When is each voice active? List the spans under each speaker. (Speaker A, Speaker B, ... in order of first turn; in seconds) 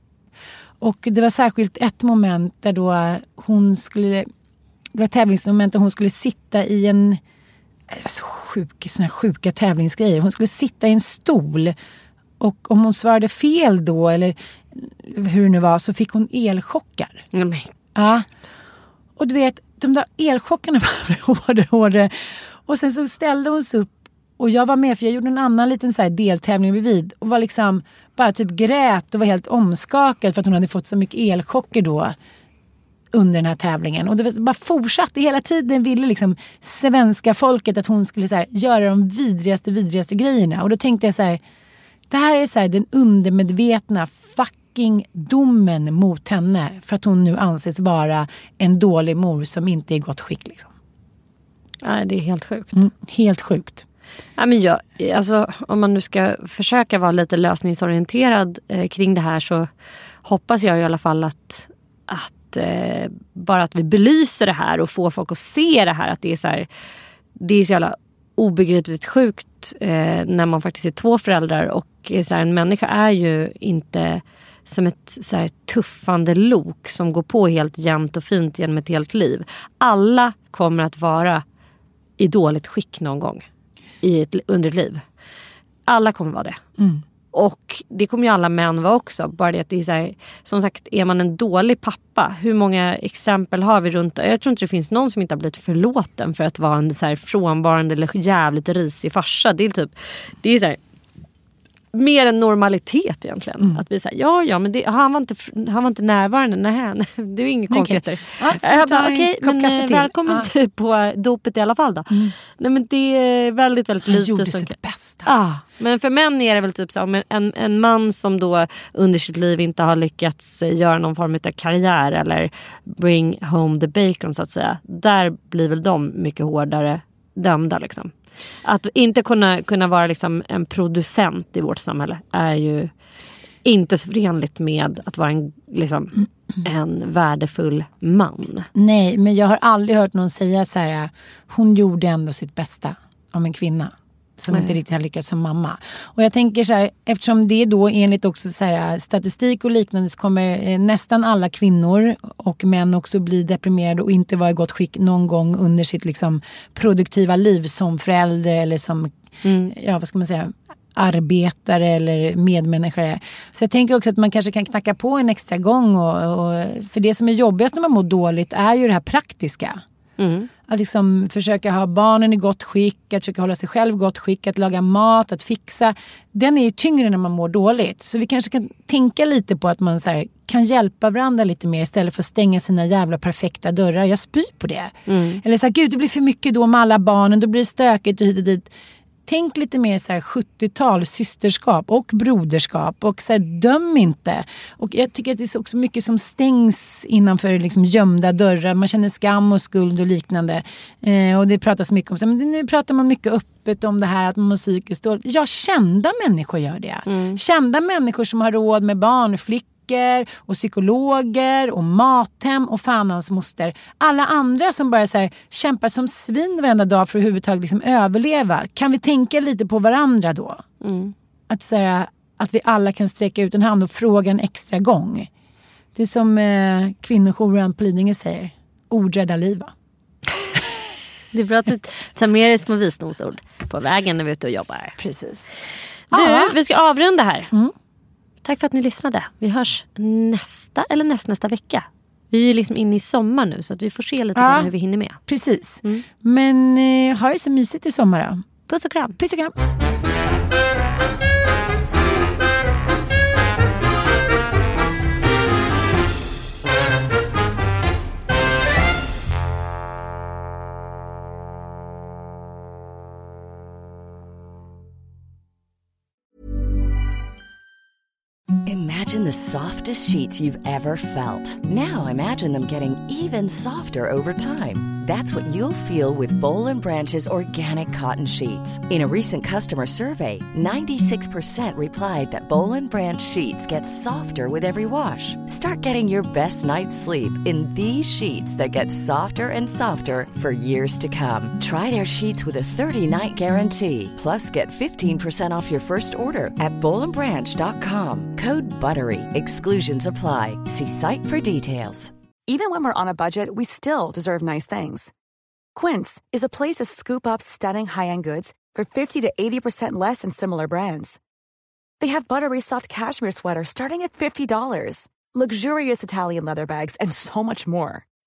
Speaker A: 0.8-4.3, 4.9-7.2, 7.9-11.7, 12.4-17.2, 17.9-18.3, 19.2-32.1, 33.1-41.4, 42.1-50.7, 52.7-53.8, 107.7-110.5, 112.1-112.3, 114.0-115.3, 138.7-159.1, 159.7-169.8, 170.7-188.7, 189.2-220.6, 221.5-225.3, 225.9-229.7, 235.0-235.4, 236.1-236.6, 244.3-244.7, 245.2-248.4, 249.2-249.5
Speaker B: 17.3-17.7, 51.8-52.9, 54.4-59.7, 60.2-66.7, 67.4-81.4, 82.2-83.4, 84.0-85.0, 85.9-86.6, 87.3-100.8, 101.9-128.1, 128.6-132.9, 133.6-138.7, 159.4-159.7, 170.2-170.5, 185.1-185.4, 207.1-207.4, 220.8-221.1, 231.3-235.0, 236.1-237.5, 238.4-245.2, 248.7-249.2
Speaker C: 268.6-302.1
Speaker D: 302.5-305.1, 305.7-311.2, 312.0-318.0